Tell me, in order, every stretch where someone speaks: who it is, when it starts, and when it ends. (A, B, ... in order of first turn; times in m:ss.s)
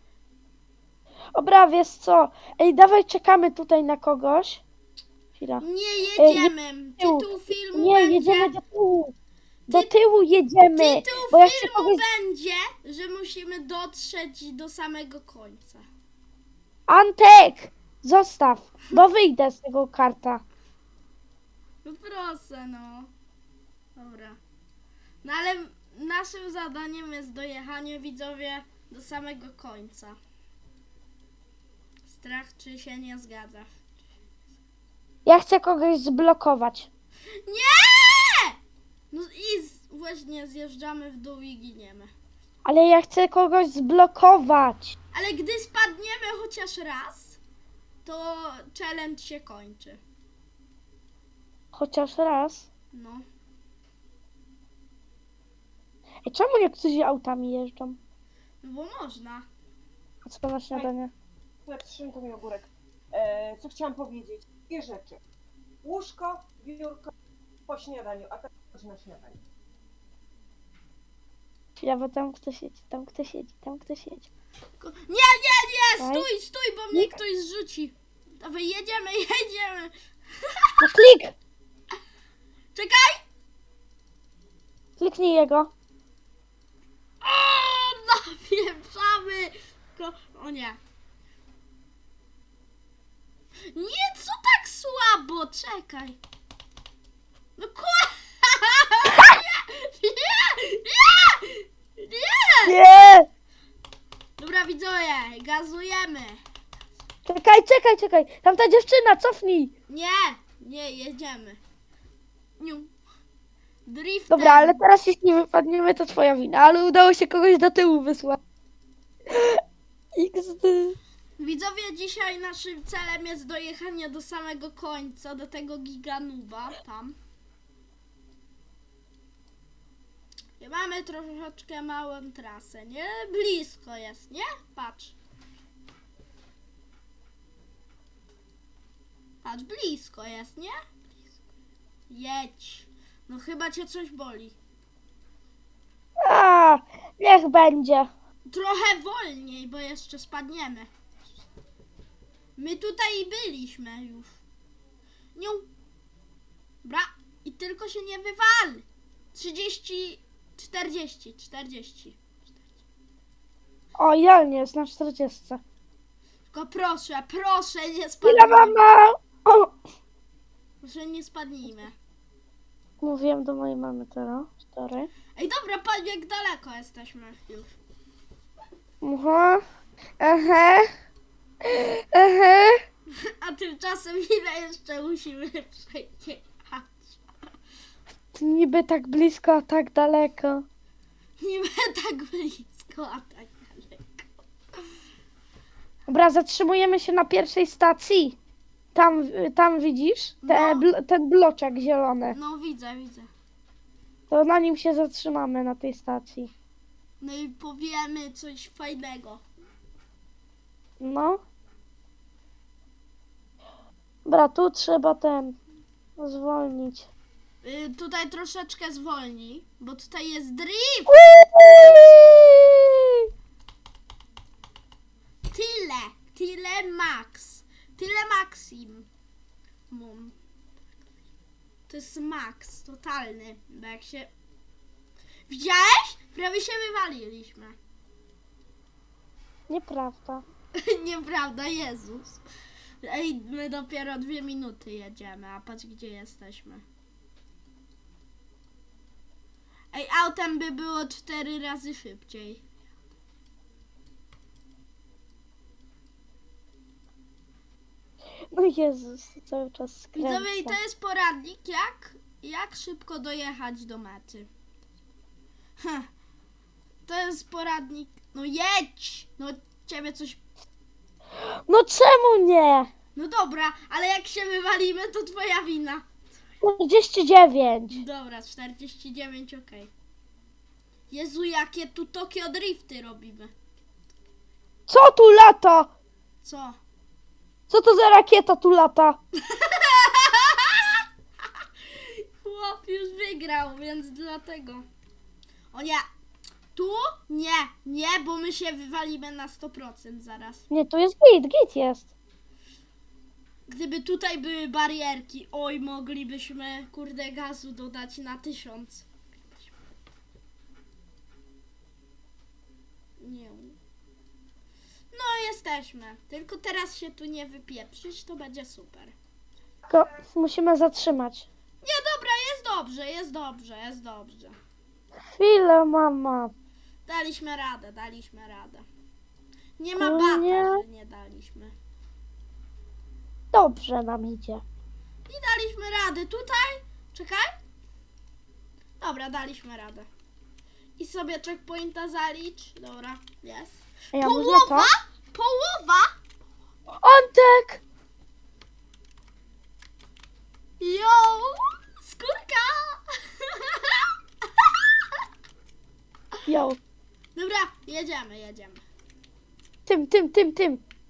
0:01.4-0:04.6 A
0:05.4-0:05.6 A
0:05.6-0:08.5 B
0:06.2-0:09.1 A
0:09.7-0:12.0 A
0:09.7-0:10.0 B
0:10.6-0:15.8 B
0:16.9-0:20.4 A
0:21.8-0:23.1 B
0:24.0-0:24.4 B
0:25.2-0:30.2 B
0:32.1-0:33.7 B
0:35.2-0:36.9 A
0:37.4-0:38.6 B
0:39.1-0:42.1 B
0:42.6-0:45.0 A
0:45.1-0:47.4 B
0:48.0-0:50.0 B
0:51.7-0:52.7 A
0:52.9-0:53.2 B
0:56.2-0:58.0 A
0:58.6-0:59.5 B
1:00.2-1:01.1 A
1:01.6-1:05.2 C
1:05.8-1:07.1 C
1:07.7-1:09.4 C
1:11.8-1:14.3 A
1:14.8-1:19.9 B
1:16.0-1:16.3 A
1:20.4-1:20.9 B
1:20.8-1:21.3 A
1:22.7-1:23.2 B
1:25.0-1:25.7 A
1:27.2-1:30.8 B
1:33.7-1:36.2 B
1:37.6-1:42.8 B
1:42.7-1:43.3 A
1:44.4-1:46.4 B
1:47.3-1:49.7 A
1:49.9-1:51.6 B
1:52.6-1:52.9 B
1:53.9-1:54.8 B
1:54.3-1:58.4 A
1:59.3-1:59.6 A
2:00.2-2:01.0 A
2:01.4-2:07.2 B
2:10.6-2:15.2 B
2:19.4-2:20.7 B
2:22.1-2:24.6 B
2:26.2-2:28.1 A
2:28.5-2:30.9 B
2:32.6-2:34.4 B
2:35.4-2:35.7 B
2:36.8-2:42.2 B
2:44.0-2:45.6 A
2:46.5-2:48.8 B
2:48.2-2:49.7 A
2:50.8-2:51.9 B
2:53.0-2:55.1 A
2:55.4-2:57.7 B
2:59.0-2:59.6 A
3:00.2-3:00.9 A
3:01.7-3:02.8 A
3:03.2-3:07.2 B
3:08.3-3:10.6 A
3:11.4-3:14.2 B
3:16.1-3:18.4 A
3:18.9-3:22.4 A
3:20.4-3:20.9 B
3:22.3-3:23.3 B
3:24.3-3:26.5 A
3:27.2-3:29.4 B
3:31.0-3:31.4 A
3:34.2-3:35.6 A
3:36.2-3:37.1 A
3:37.6-3:41.1 B
3:41.1-3:42.8 A
3:45.5-3:49.1 B
3:49.9-3:50.4 B
3:51.9-3:54.3 B
3:55.5-3:57.8 B
3:59.7-4:00.4 A
4:00.8-4:02.4 B
4:03.0-4:06.8 B
4:09.9-4:12.6 B
4:18.5-4:20.8 A
4:20.2-4:24.5 B
4:25.8-4:26.1 B
4:27.0-4:30.4 B
4:31.7-4:32.9 A
4:33.2-4:36.1 B
4:36.6-4:38.0 A
4:37.9-4:39.9 B
4:41.1-4:43.5 B
4:44.9-4:45.9 A
4:46.4-4:46.8 B
4:47.7-4:49.2 A
4:49.5-4:51.0 B
4:51.6-4:54.9 B
4:55.7-4:56.0 B
4:56.7-5:00.6 B
5:00.7-5:02.1 A
5:03.7-5:09.7 B
5:13.2-5:13.8 B
5:15.1-5:19.1 B
5:19.9-5:21.5 A
5:21.8-5:24.6 B
5:25.3-5:26.5 A
5:27.1-5:28.9 B
5:29.8-5:31.8 B
5:30.0-5:30.8 A
5:33.5-5:34.6 A
5:35.3-5:37.6 B
5:39.0-5:40.1 B
5:41.0-5:46.2 B
5:44.1-5:44.9 A
5:47.0-5:47.8 A
5:50.8-5:54.9 B
5:56.5-5:56.8 A
5:57.4-5:58.8 B
5:59.9-6:00.8 A